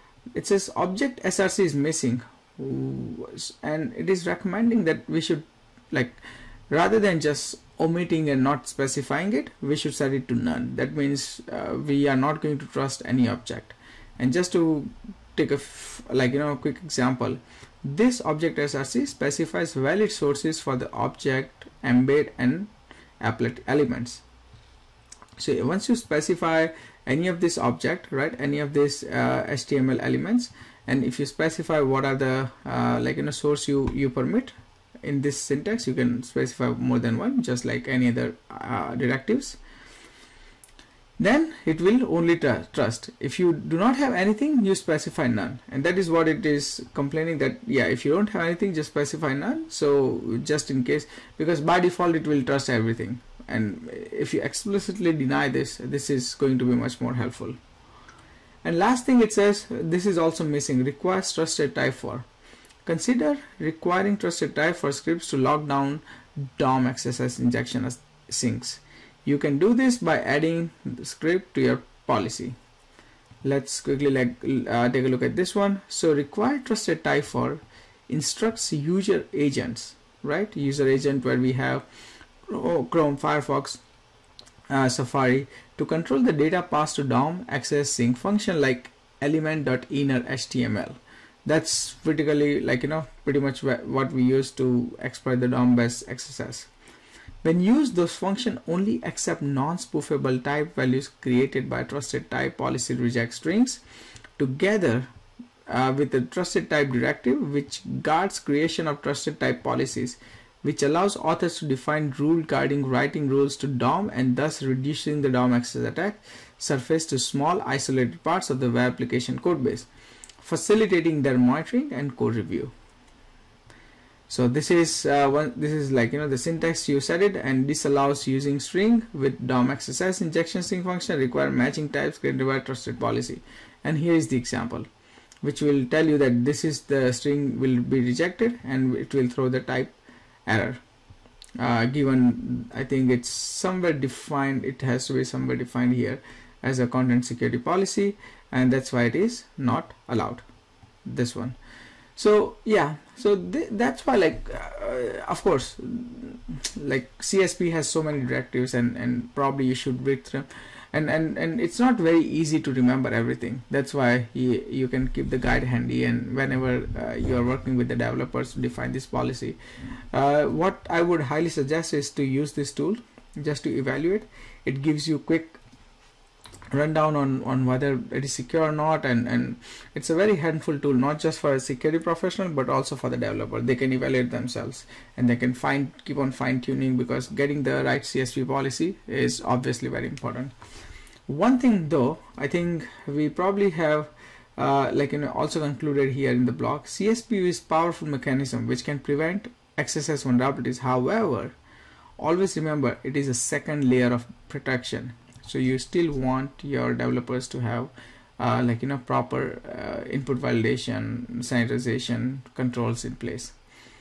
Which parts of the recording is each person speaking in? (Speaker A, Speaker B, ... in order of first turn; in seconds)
Speaker A: 0.3-24.2, 25.4-39.6, 41.2-57.6, 58.6-62.2, 62.9-72.5, 73.4-81.8, 82.5-83.8, 84.7-96.7, 97.4-103.8, 104.4-105.1, 105.7-119.9, 120.4-122.7, 124.3-134.8, 135.4-140.8, 141.6-150.4, 151.0-151.6, 152.2-169.6, 170.1-175.6, 176.7-190.5, 191.3-201.5, 202.2-213.5